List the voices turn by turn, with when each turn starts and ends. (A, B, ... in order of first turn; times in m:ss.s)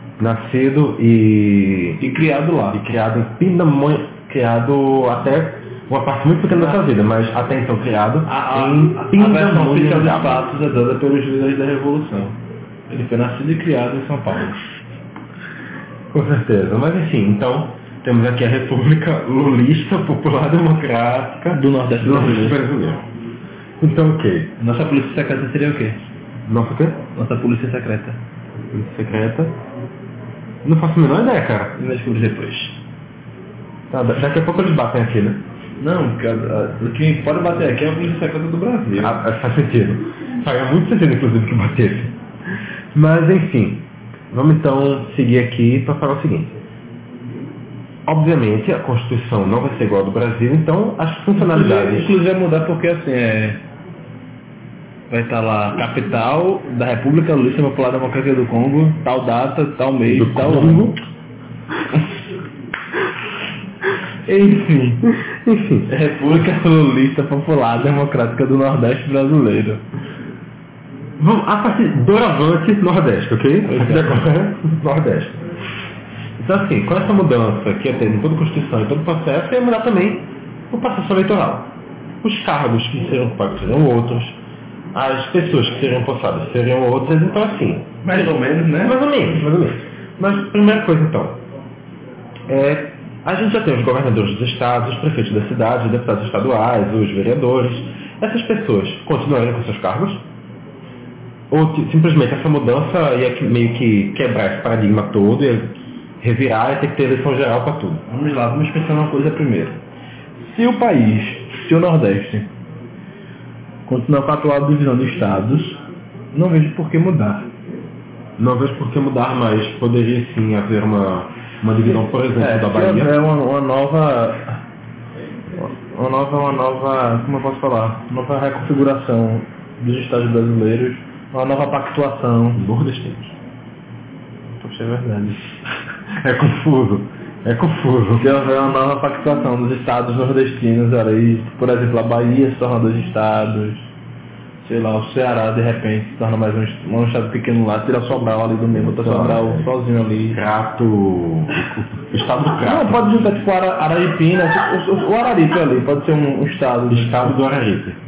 0:00.2-0:02.0 A
0:02.0-0:02.8 B
0:02.7-0:10.5 A
0:06.5-0:06.8 B
0:08.3-0:12.4 B
0:12.9-0:14.6 B
0:16.1-0:23.0 A
0:21.5-0:22.6 B
0:23.8-0:24.5 A
0:24.6-0:26.0 B
0:26.5-0:27.0 A
0:27.2-0:28.2 B
0:28.7-0:29.6 A
0:30.6-0:31.8 A
0:31.8-0:32.8 B
0:33.9-0:35.4 A
0:35.8-0:39.2 B
0:39.0-0:42.2 A
0:42.9-0:46.6 A
0:48.1-0:52.2 A
0:51.4-0:53.6 B
0:55.1-1:01.0 B
1:00.0-1:01.0 A
1:04.3-1:05.1 B
1:05.1-1:05.9 A
1:05.9-1:09.8 B
1:11.2-1:15.5 A
1:13.6-1:14.2 B
1:16.4-1:24.4 A
1:24.9-1:31.4 A
1:28.0-1:29.0 B
1:32.5-1:40.2 A
1:41.5-1:48.0 A
1:48.1-1:49.8 B
1:50.4-1:52.5 B
1:53.9-1:55.8 B
1:56.3-1:57.5 B
1:58.4-2:03.1 A
2:02.4-2:04.6 B
2:05.6-2:12.6 B
2:12.6-2:13.4 A
2:14.6-2:15.4 B
2:16.2-2:18.3 A
2:18.2-2:23.9 B
2:24.6-2:30.4 B
2:28.8-2:29.7 A
2:30.3-2:33.0 A
2:32.6-2:37.4 B
2:36.9-2:38.0 A